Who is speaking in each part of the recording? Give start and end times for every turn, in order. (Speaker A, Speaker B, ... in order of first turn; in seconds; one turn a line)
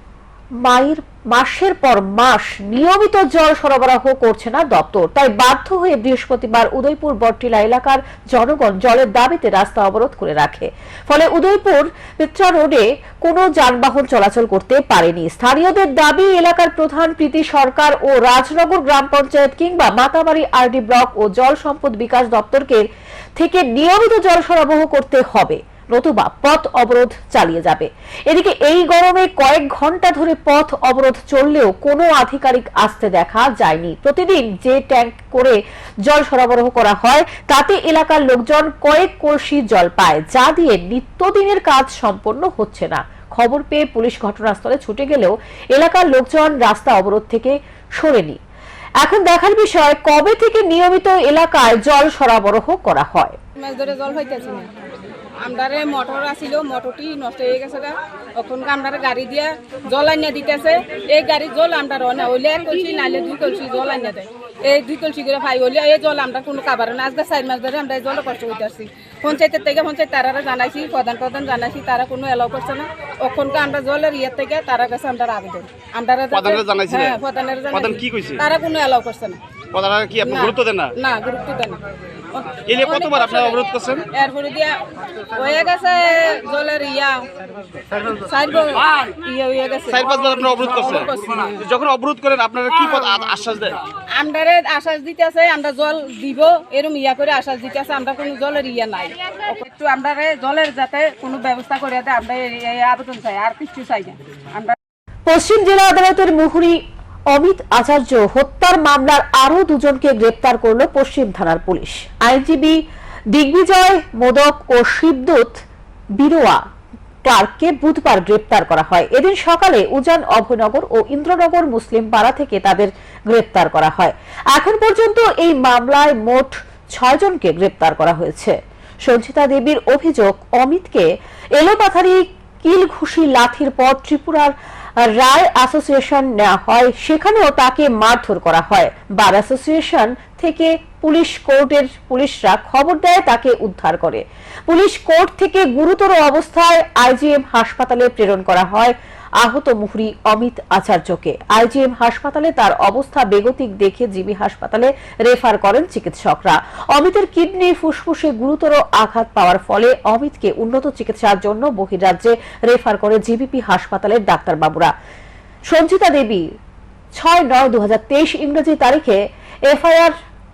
Speaker A: 0.6-22.8
Speaker A: 23.4-48.4
Speaker A: 49.0-53.4
Speaker B: 53.6-54.7
Speaker B: 55.4-79.4
Speaker C: 76.3-77.2
Speaker C: 77.7-78.5
Speaker C: 79.7-80.9
Speaker B: 80.2-81.8
Speaker B: 82.3-84.8
Speaker C: 82.7-84.0
Speaker B: 85.3-87.2
Speaker B: 88.0-91.7
Speaker C: 89.9-93.8
Speaker B: 94.1-104.8
Speaker A: 105.2-112.8
Speaker A: 113.3-115.6
Speaker A: 116.2-116.6
Speaker A: 117.2-128.6
Speaker A: 129.1-134.5
Speaker A: 135.0-164.9
Speaker A: 165.7-166.4
Speaker A: 167.2-170.1